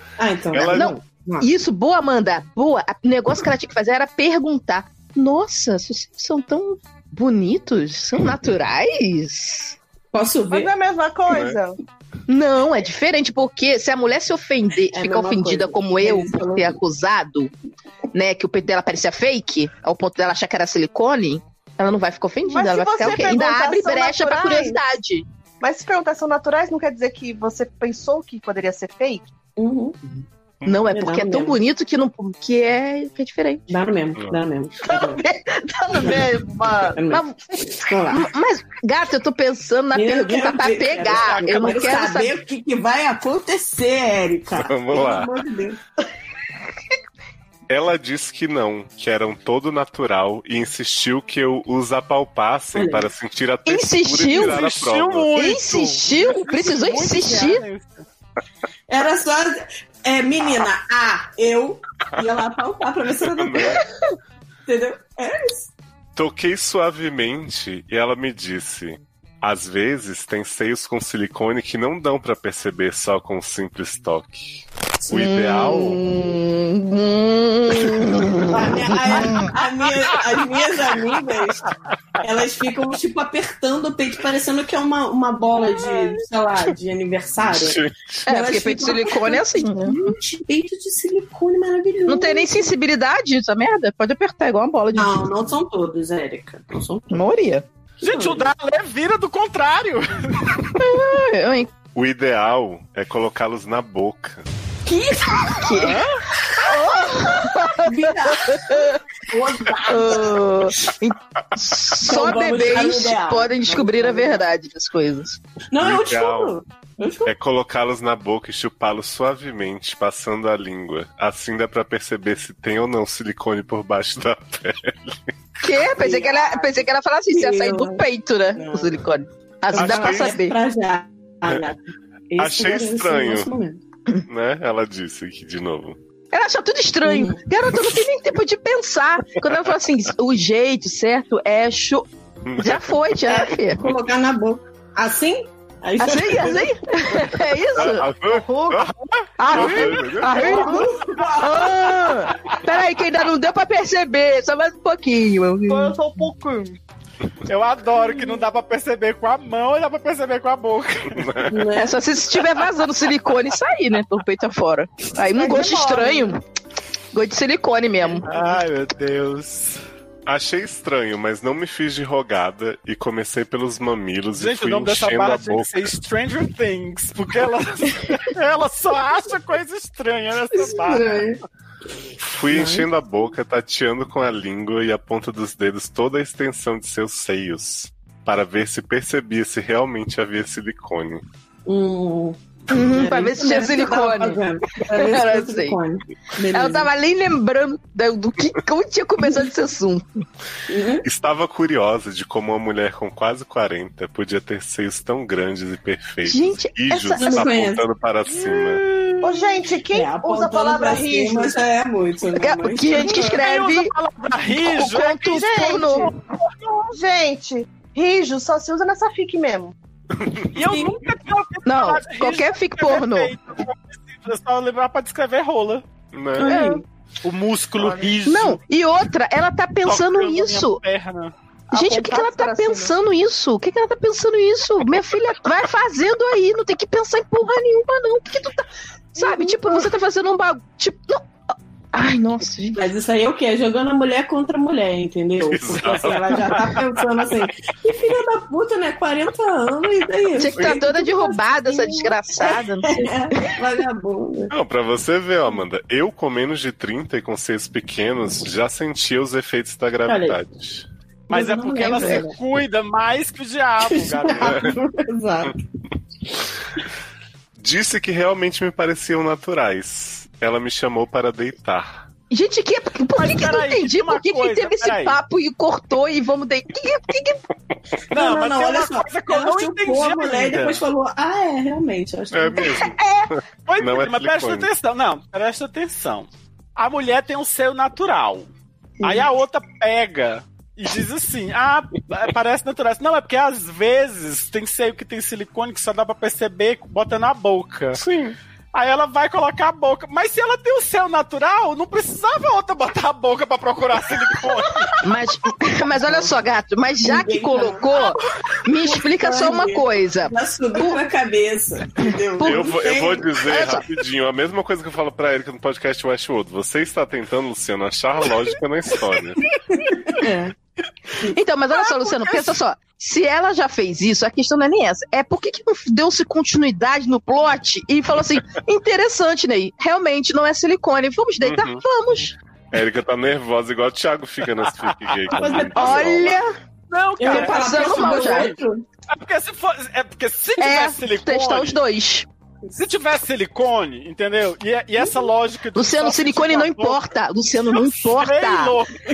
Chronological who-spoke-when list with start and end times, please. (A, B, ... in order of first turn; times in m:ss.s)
0:00.2-0:01.5 A
0:00.5-0:00.9 B
0:00.7-0:09.8 C
0:10.1-0:10.7 A
0:10.5-0:11.8 D
0:11.3-0:11.6 B
0:12.3-0:17.5 C
0:14.9-0:16.8 A
0:18.1-0:25.2 C
0:22.5-0:24.8 D
0:25.6-0:29.3 D
0:29.6-0:30.0 A
0:30.6-0:33.6 C
0:30.9-0:31.6 A
0:33.7-0:35.2 A
0:34.9-0:36.1 C
0:35.8-0:37.0 D
0:37.0-0:37.2 A
0:37.1-0:37.4 C
0:37.8-0:38.3 A
0:38.1-0:42.4 C
0:39.9-0:45.8 A
0:41.2-0:41.9 E
0:44.5-0:45.3 B
0:47.7-0:55.3 B
0:52.7-0:53.1 A
0:53.7-0:54.6 C
0:54.3-0:58.0 E
0:55.3-0:57.6 C
0:57.2-0:57.5 A
0:58.9-1:03.8 A
1:03.2-1:03.8 B
1:04.7-1:05.7 A
1:06.2-1:16.0 B
1:15.1-1:19.5 C
1:18.5-1:21.7 A
1:22.2-1:32.7 A
1:27.4-1:28.3 B
1:28.3-1:30.1 C
1:32.1-1:35.3 C
1:34.9-1:37.2 A
1:37.1-1:37.6 C
1:38.0-1:38.5 A
1:38.0-1:40.4 E
1:40.8-1:41.7 C
1:42.0-1:44.4 B
1:44.9-1:45.7 A
1:45.6-1:46.0 C
1:45.7-1:46.2 E
1:46.6-1:48.9 C
1:47.7-1:50.7 A
1:49.9-1:55.4 C
1:52.0-1:54.4 A
1:55.7-1:57.3 A
1:55.8-1:56.6 B
1:57.3-2:05.2 B
2:05.6-2:10.6 C
2:05.9-2:09.0 A
2:09.7-2:13.8 A
2:09.8-2:10.4 B
2:12.4-2:13.5 B
2:14.3-2:16.0 B
2:16.3-2:22.1 C
2:17.0-2:17.5 A
2:22.5-2:22.9 B
2:22.6-2:23.8 C
2:23.3-2:26.8 A
2:26.0-2:28.1 C
2:27.8-2:30.7 B
2:28.3-2:28.8 D
2:29.4-2:30.9 C
2:29.5-2:30.9 D
2:30.3-2:31.9 A
2:31.4-2:36.0 C
2:35.7-2:36.8 D
2:37.5-2:41.3 E
2:41.2-2:41.6 B
2:41.5-2:42.1 A
2:41.8-2:46.4 C
2:45.2-2:46.2 D
2:45.8-2:46.2 A
2:47.1-2:48.3 C
2:48.3-2:49.8 E
2:50.3-2:55.9 B
2:54.4-3:01.1 E
3:00.6-3:01.4 A
3:02.2-3:11.2 B
3:02.5-3:02.9 A
3:11.7-3:16.9 A
3:12.7-3:15.8 C
3:16.5-3:20.2 C
3:19.2-3:19.5 A
3:20.7-3:21.1 A
3:21.0-3:28.8 B
3:26.2-3:27.5 C
3:27.1-3:27.8 A
3:28.3-3:29.5 E
3:29.2-3:31.6 D
3:29.9-3:33.5 A
3:32.4-3:33.9 C
3:33.4-3:37.0 E
3:34.6-3:36.1 C
3:35.2-3:36.1 D
3:36.9-3:39.7 D
3:40.6-3:45.8 E
3:40.7-3:41.0 A
3:41.7-3:43.3 C
3:46.1-3:46.5 B
3:46.4-3:46.8 A
3:46.4-3:46.8 C
3:47.2-3:48.6 E
3:47.8-3:48.1 D
3:48.2-3:50.8 C
3:49.8-3:51.3 E
3:51.7-3:52.9 D
3:51.7-4:01.3 C
3:59.2-3:59.9 A
4:01.9-4:02.8 C
4:02.7-4:14.5 A
4:05.4-4:06.9 B
4:10.4-4:13.6 C
4:14.5-4:20.9 B
4:20.1-4:20.4 A
4:21.3-4:22.4 A
4:21.3-4:24.6 E
4:21.7-4:22.2 C
4:23.8-4:25.6 A
4:24.4-4:24.7 B
4:27.6-4:32.1 B
4:32.3-4:37.4 C
4:33.2-4:35.2 E
4:38.1-4:40.8 E
4:38.1-4:42.9 A
4:42.3-4:44.7 B
4:43.0-4:43.3 C
4:43.7-4:48.5 E
4:49.0-4:49.2 A
4:49.0-4:58.0 E
4:58.7-5:05.0 E
5:05.0-5:11.0 C
5:07.0-5:08.1 A
5:08.7-5:13.3 A
5:12.0-5:12.5 C
5:12.4-5:19.4 B
5:13.5-5:13.8 C
5:20.2-5:20.6 A
5:21.3-5:32.3 C
5:21.7-5:22.6 E
5:31.4-5:31.8 B
5:32.7-5:36.3 B
5:35.3-5:36.3 A
5:35.8-5:36.5 C
5:36.9-5:38.5 E
5:37.2-5:38.8 A
5:37.2-5:38.6 C
5:39.1-5:41.8 E
5:40.6-5:42.3 C
5:42.7-5:47.0 E
5:45.0-5:45.2 A
5:45.8-5:48.8 C
5:47.7-5:49.0 E